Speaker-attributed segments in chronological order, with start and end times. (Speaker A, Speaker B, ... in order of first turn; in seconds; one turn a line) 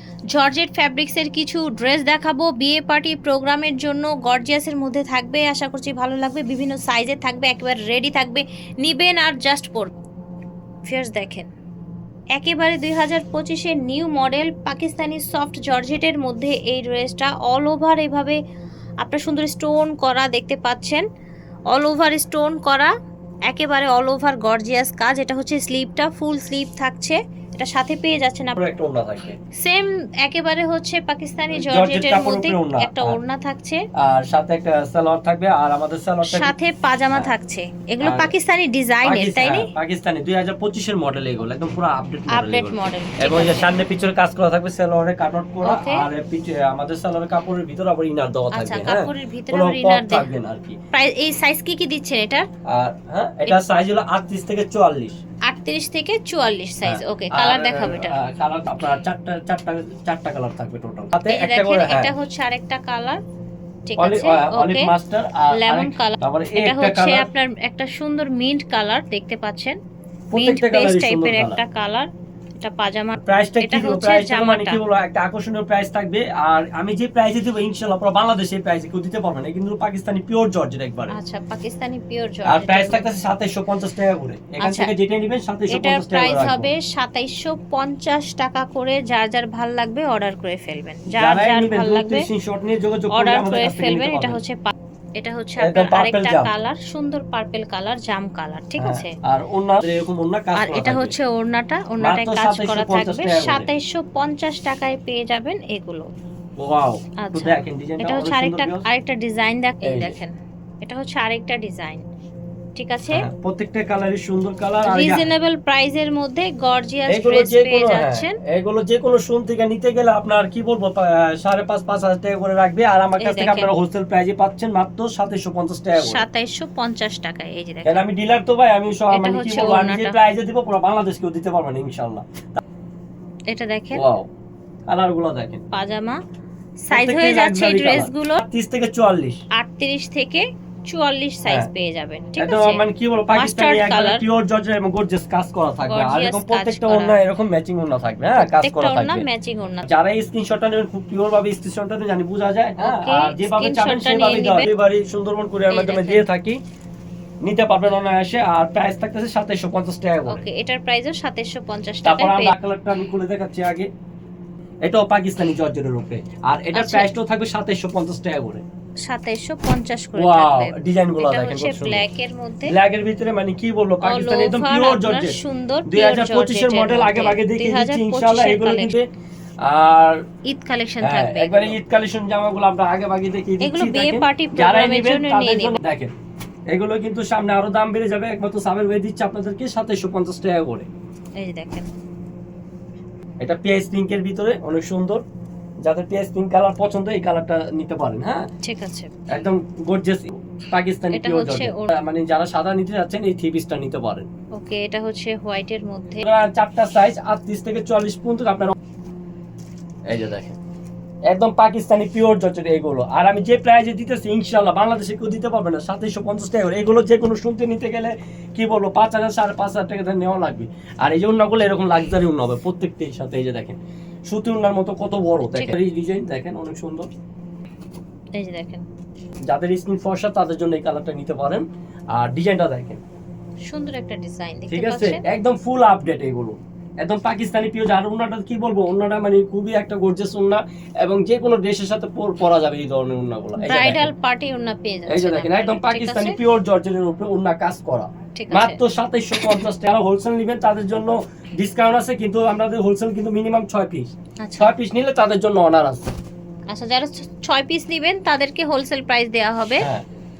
Speaker A: 0.3-9.9
Speaker A: 10.8-11.5
Speaker A: 12.3-18.4
Speaker A: 19.0-21.0
Speaker A: 21.7-22.9
Speaker A: 23.5-28.6
Speaker B: 28.6-29.4
Speaker A: 29.6-33.8
Speaker B: 31.5-33.2
Speaker B: 34.0-36.5
Speaker A: 36.2-39.7
Speaker B: 38.0-38.3
Speaker B: 39.0-50.8
Speaker A: 42.3-43.8
Speaker A: 45.6-46.1
Speaker A: 48.5-50.3
Speaker A: 50.9-52.5
Speaker B: 52.6-55.2
Speaker A: 55.5-58.2
Speaker B: 56.8-62.1
Speaker A: 61.2-63.2
Speaker A: 63.9-64.9
Speaker B: 64.0-67.3
Speaker A: 65.5-69.8
Speaker B: 70.3-71.6
Speaker A: 70.3-72.1
Speaker A: 72.6-74.8
Speaker B: 73.2-81.2
Speaker A: 81.1-83.1
Speaker B: 82.5-86.7
Speaker A: 84.6-84.9
Speaker A: 85.7-92.3
Speaker B: 91.1-94.4
Speaker A: 93.1-99.2
Speaker B: 95.6-96.5
Speaker B: 98.8-101.1
Speaker A: 100.6-106.1
Speaker B: 102.0-103.7
Speaker B: 106.6-108.8
Speaker A: 107.2-112.0
Speaker B: 109.8-110.2
Speaker A: 112.8-113.3
Speaker B: 113.1-115.3
Speaker A: 114.8-118.4
Speaker B: 117.1-126.2
Speaker A: 123.2-123.7
Speaker A: 126.0-128.0
Speaker B: 127.8-132.6
Speaker A: 129.1-130.2
Speaker A: 133.5-134.0
Speaker B: 133.9-134.3
Speaker B: 134.9-135.6
Speaker A: 135.7-136.2
Speaker A: 136.8-138.4
Speaker B: 136.9-139.4
Speaker A: 139.5-144.2
Speaker B: 142.4-149.3
Speaker A: 145.8-147.2
Speaker A: 148.3-149.9
Speaker B: 149.8-156.6
Speaker A: 152.8-154.7
Speaker A: 155.7-156.2
Speaker B: 157.4-160.4
Speaker A: 160.3-162.5
Speaker B: 162.0-163.9
Speaker B: 164.8-168.6
Speaker A: 166.7-167.1
Speaker A: 169.1-172.7
Speaker B: 170.2-172.0
Speaker B: 172.7-179.1
Speaker A: 174.0-178.9
Speaker B: 179.6-180.2
Speaker A: 180.4-181.8
Speaker B: 181.0-186.1
Speaker A: 183.6-185.8
Speaker B: 186.7-190.9
Speaker A: 191.4-191.9
Speaker B: 193.4-195.2
Speaker B: 195.8-198.5
Speaker A: 198.6-199.1
Speaker B: 199.3-204.3
Speaker A: 201.1-201.9
Speaker A: 204.6-206.2
Speaker B: 206.2-208.7
Speaker B: 210.1-210.6
Speaker B: 211.3-227.1
Speaker A: 225.4-225.7
Speaker A: 228.3-228.8
Speaker B: 229.4-233.0
Speaker A: 233.7-235.2
Speaker B: 234.7-244.1
Speaker A: 243.6-246.4
Speaker B: 245.1-256.1
Speaker A: 248.3-248.8
Speaker A: 254.4-254.7
Speaker A: 256.7-259.9